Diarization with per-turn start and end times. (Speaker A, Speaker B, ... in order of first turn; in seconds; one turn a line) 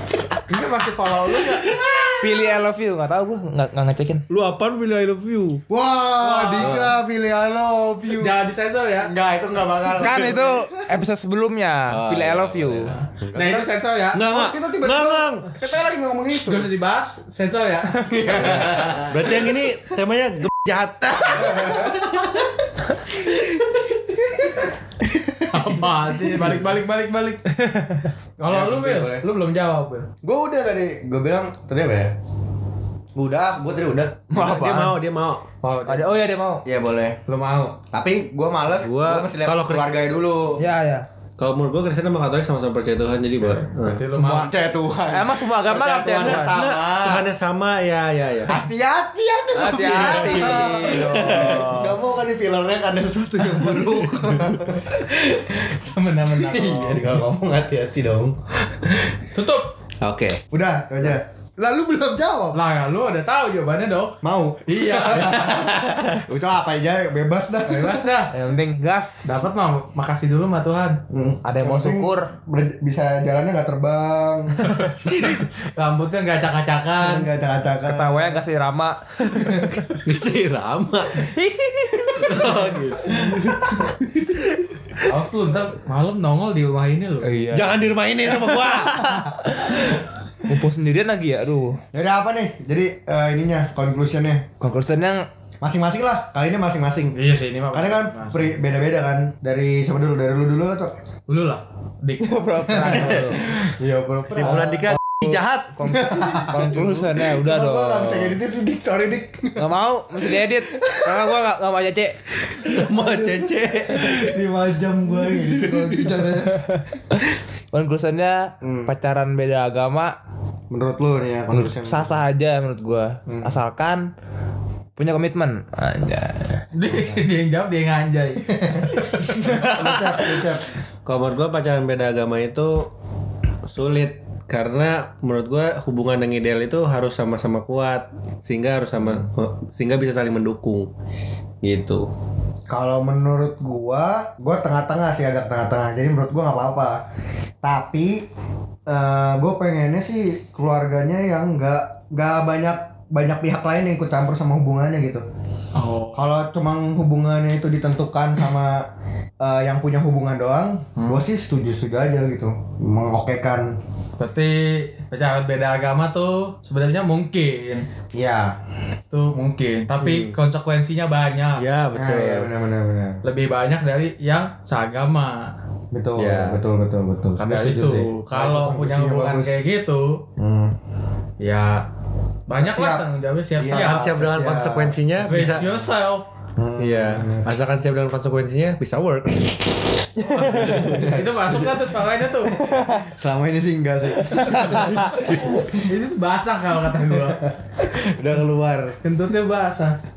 Speaker A: 0.5-1.8
Speaker B: 1.7-2.1
Speaker C: 2.2-4.2
Speaker D: 4.3-5.6
Speaker B: 5.7-8.3
Speaker A: 6.2-6.9
Speaker D: 6.6-6.9
Speaker A: 8.1-9.1
Speaker B: 9.0-10.9
Speaker C: 9.9-12.9
Speaker D: 11.9-13.0
Speaker B: 13.2-16.7
Speaker A: 13.3-14.2
Speaker D: 14.1-15.4
Speaker A: 16.4-18.5
Speaker B: 18.1-19.4
Speaker D: 18.5-21.9
Speaker B: 21.2-22.5
Speaker B: 24.1-24.5
Speaker B: 25.0-25.8
Speaker A: 25.5-27.4
Speaker C: 27.6-28.1
Speaker A: 28.4-30.1
Speaker B: 28.5-29.2
Speaker B: 30.2-32.1
Speaker B: 33.1-34.2
Speaker C: 34.3-35.0
Speaker D: 34.3-35.5
Speaker A: 35.6-36.1
Speaker C: 35.9-36.6
Speaker B: 36.6-37.2
Speaker A: 37.3-37.8
Speaker B: 37.9-40.6
Speaker D: 38.8-40.0
Speaker C: 40.6-41.0
Speaker D: 41.4-44.0
Speaker A: 43.4-44.5
Speaker B: 44.1-47.3
Speaker C: 44.1-44.5
Speaker C: 45.1-46.5
Speaker D: 46.2-48.6
Speaker B: 48.5-54.9
Speaker C: 49.5-51.9
Speaker D: 50.0-51.9
Speaker A: 54.9-57.1
Speaker B: 56.3-58.9
Speaker A: 59.3-59.7
Speaker D: 60.0-60.4
Speaker B: 60.5-62.6
Speaker A: 62.5-65.7
Speaker B: 64.2-68.1
Speaker D: 65.5-66.2
Speaker A: 67.7-68.3
Speaker C: 68.3-69.3
Speaker A: 69.2-71.0
Speaker B: 71.1-74.7
Speaker C: 71.4-72.3
Speaker A: 74.8-77.3
Speaker B: 77.0-78.4
Speaker C: 77.8-79.6
Speaker B: 79.3-79.8
Speaker D: 80.0-81.3
Speaker C: 81.5-82.3
Speaker D: 82.1-85.1
Speaker B: 82.2-84.0
Speaker A: 85.0-87.3
Speaker C: 87.2-87.8
Speaker D: 87.5-89.4
Speaker C: 88.6-91.8
Speaker B: 91.9-94.4
Speaker C: 94.6-95.3
Speaker B: 95.6-97.1
Speaker A: 97.1-98.5
Speaker B: 97.7-100.9
Speaker A: 101.3-103.1
Speaker C: 102.2-103.4
Speaker B: 102.5-104.9
Speaker D: 104.4-105.8
Speaker C: 104.8-108.4
Speaker B: 105.8-109.6
Speaker C: 109.6-112.2
Speaker B: 110.3-111.2
Speaker D: 112.5-114.4
Speaker B: 112.6-113.4
Speaker B: 113.9-116.8
Speaker D: 115.0-116.3
Speaker C: 116.5-116.8
Speaker C: 117.7-120.1
Speaker B: 118.6-118.9
Speaker B: 120.7-122.1
Speaker C: 121.5-124.0
Speaker B: 123.3-123.6
Speaker C: 125.0-126.7
Speaker A: 126.7-129.2
Speaker B: 128.4-130.7
Speaker C: 129.4-130.4
Speaker D: 131.0-132.9
Speaker D: 133.7-140.9
Speaker D: 141.6-142.1
Speaker B: 142.7-147.0
Speaker B: 147.6-148.2
Speaker B: 148.9-155.2
Speaker A: 155.7-156.3
Speaker B: 156.1-158.8
Speaker B: 159.4-163.7
Speaker A: 161.0-161.2
Speaker A: 164.2-167.8
Speaker B: 168.1-168.6
Speaker A: 169.1-171.6
Speaker D: 170.0-170.3
Speaker D: 171.6-172.5
Speaker B: 171.9-173.2
Speaker A: 173.2-175.5
Speaker B: 175.9-179.6
Speaker D: 176.2-176.6
Speaker A: 177.4-180.2
Speaker B: 180.4-180.7
Speaker A: 181.4-181.8
Speaker A: 182.5-184.1
Speaker B: 182.5-183.0
Speaker B: 183.6-185.0
Speaker D: 183.6-185.7
Speaker A: 185.2-186.2
Speaker B: 186.6-187.4
Speaker D: 186.8-189.6
Speaker A: 190.3-192.6
Speaker C: 190.3-190.8
Speaker D: 190.4-191.0
Speaker B: 190.5-191.9
Speaker C: 192.7-193.1
Speaker B: 193.0-195.7
Speaker D: 194.5-195.6
Speaker A: 195.8-197.4
Speaker B: 197.1-198.9
Speaker A: 199.0-200.0